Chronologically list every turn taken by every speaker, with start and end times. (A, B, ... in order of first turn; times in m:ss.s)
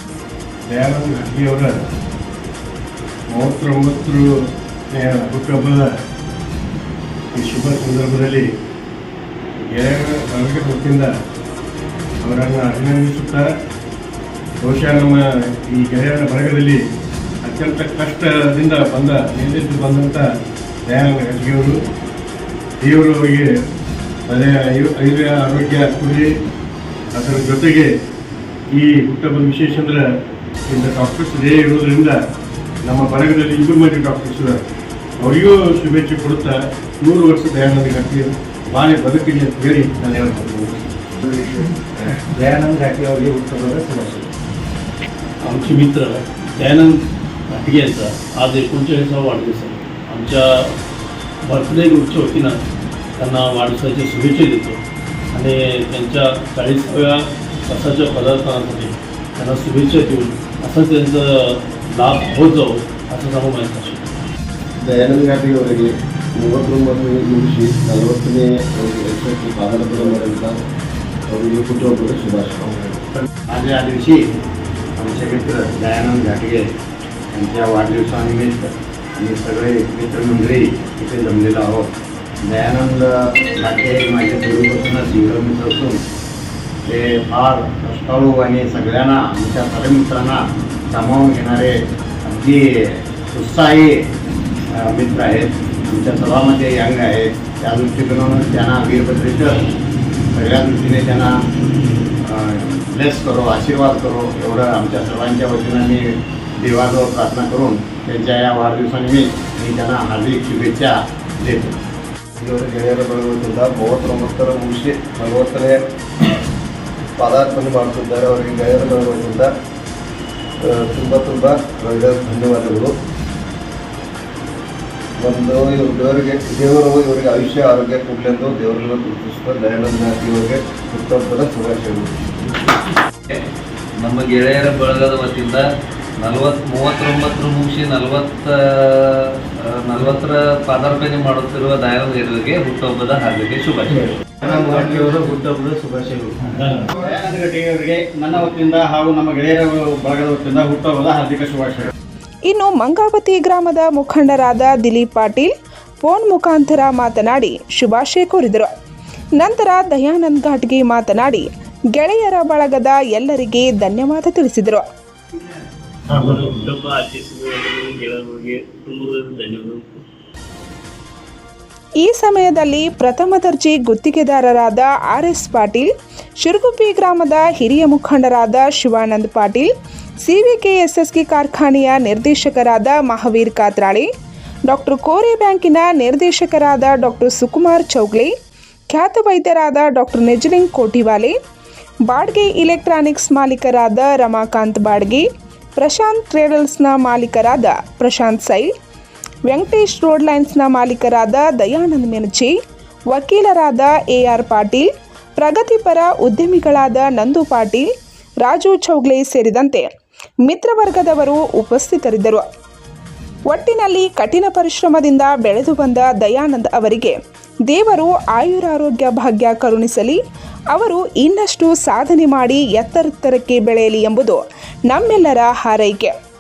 0:00.7-0:01.8 A
0:03.3-0:04.2 A
0:04.9-0:05.9 A
0:07.3-0:08.4 A
0:09.7-0:11.1 A
0:12.2-0:13.5 A
0:14.6-0:16.8 A
0:17.4-0:20.2 A
0:20.9-0:21.8 A
0:22.8-0:23.5 A
0:24.3-0:26.3 A
0:27.2-0:27.9 A
0:28.7-0:30.0 A
0:30.7-0:32.2 A
0:32.8-0:34.6 A
0:35.2-0:40.9 A
0:41.3-0:41.6 B
0:42.3-0:44.3 C
0:45.4-0:47.0 D
0:47.5-0:50.7 D
0:51.4-0:52.6 D
0:53.2-0:54.8 D
0:55.3-1:04.0 D
1:04.8-1:10.6 B
1:11.3-1:13.0 B
1:13.5-1:14.2 E
1:15.0-1:16.6 E
1:17.3-1:21.9 E
1:22.4-1:26.0 E
1:26.9-1:34.0 E
1:34.7-1:39.6 E
1:40.4-1:41.4 E
1:42.2-1:51.8 E
1:52.4-1:55.8 B
1:57.2-1:59.5 B
2:00.6-2:02.9 B
2:05.2-2:12.2 B
2:14.0-2:15.7 F
2:16.2-2:24.0 F
2:24.0-2:26.9 C
2:26.9-2:31.9 E
2:32.5-2:35.5 G
2:36.0-2:38.7 G
2:39.4-2:44.8 G
2:46.1-2:46.4 A
2:46.2-2:49.9 D
2:52.0-2:55.9 G
2:56.4-2:59.7 G
3:00.2-3:04.1 G
3:04.7-3:08.3 G
3:08.9-3:11.4 G
3:12.1-3:15.2 G
3:15.8-3:18.7 G
3:19.5-3:22.5 G
3:23.1-3:27.9 G
3:28.4-3:29.9 G
3:30.4-3:32.4 G
3:33.5-3:37.2 G
3:37.7-3:40.2 G
3:40.7-3:46.1 G